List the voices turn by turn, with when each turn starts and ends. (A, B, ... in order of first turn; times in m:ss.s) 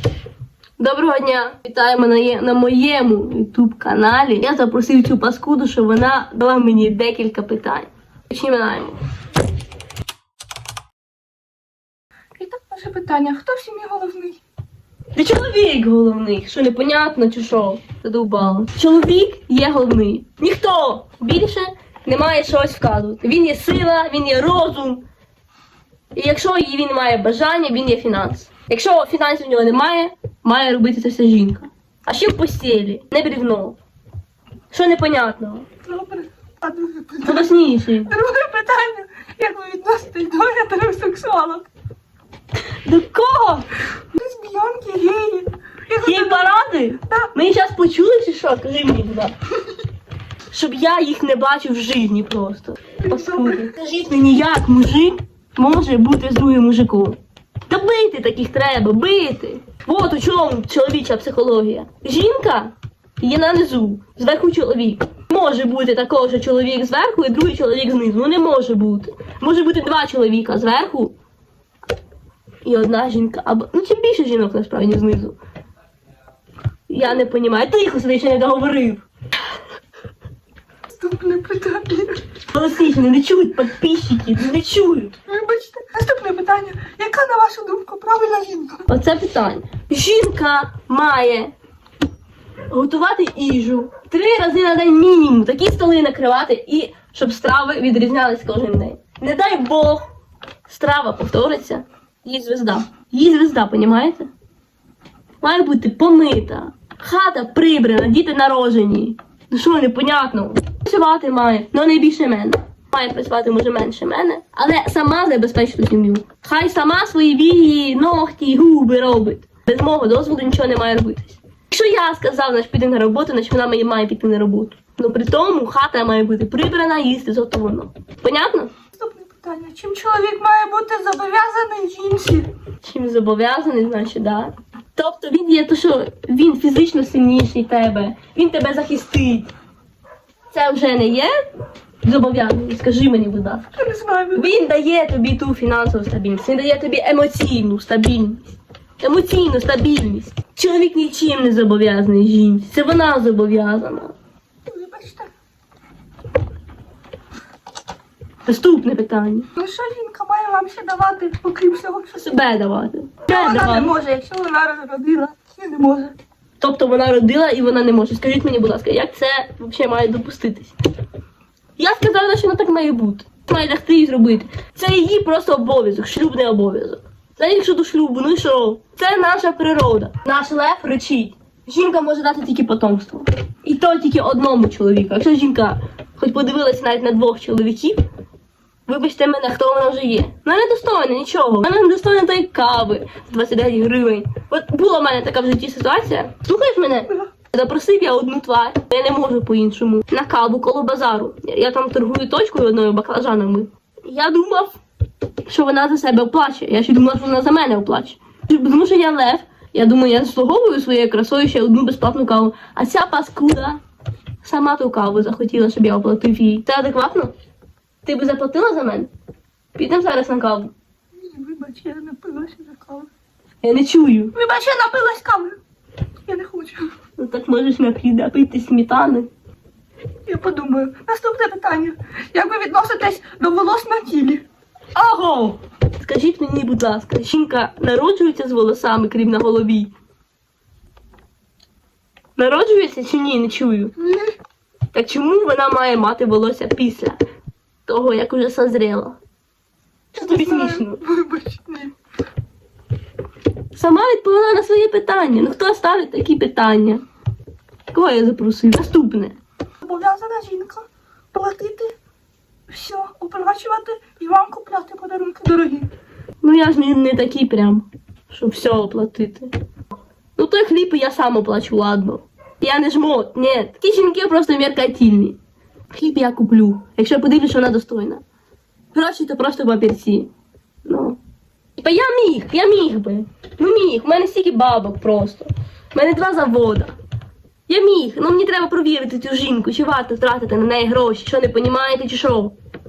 0:00.8-0:09.0 A
0:12.4-0:14.4 B
0:15.2-0:25.0 A
0:26.1-0:33.8 A
0:34.7-0:35.7 A
0:35.8-0:41.7 B
0:37.2-0:38.1 A
0:42.8-0:43.7 A
0:44.1-0:47.3 B
0:46.0-0:49.3 A
0:50.5-1:11.2 A
0:53.0-0:53.7 B
1:12.6-1:15.4 A
1:16.9-1:19.0 A
1:20.9-1:22.2 B
1:22.5-1:25.2 A
1:25.3-1:28.9 B
1:28.9-1:31.5 A
1:32.7-1:40.0 A
1:40.7-1:44.3 A
1:45.4-2:08.7 A
2:08.9-2:12.5 B
2:12.8-2:19.5 A
2:20.5-2:21.3 A
2:22.0-2:23.7 A
2:23.8-2:24.5 B
2:24.3-2:34.2 A
2:34.7-2:35.3 B
2:38.5-2:39.5 A
2:39.6-2:42.4 B
2:42.2-2:43.9 A
2:43.3-2:46.2 B
2:46.6-2:50.8 A
2:51.8-3:08.0 A
3:08.9-3:24.8 A
3:25.5-3:33.8 A
3:34.4-3:37.3 A
3:38.0-3:39.1 A
3:39.8-3:40.7 A
3:41.1-3:43.1 B
3:43.6-3:44.3 A
3:44.3-3:45.6 B
3:46.2-3:46.9 B
3:47.2-3:49.3 A
3:50.2-3:54.4 B
3:54.9-3:59.9 A
4:02.4-4:03.9 A
4:04.0-4:04.3 B
4:04.9-4:07.2 A
4:07.9-4:09.2 A
4:10.1-4:11.0 A
4:10.2-4:11.9 B
4:13.7-4:17.0 A
4:17.9-4:19.4 A
4:19.8-4:21.9 B
4:22.7-4:25.9 B
4:26.4-4:29.5 A
4:30.4-4:35.4 A
4:35.9-4:38.2 A
4:38.9-4:40.3 A
4:40.8-4:41.2 A
4:41.8-4:47.0 A
4:47.7-4:52.5 A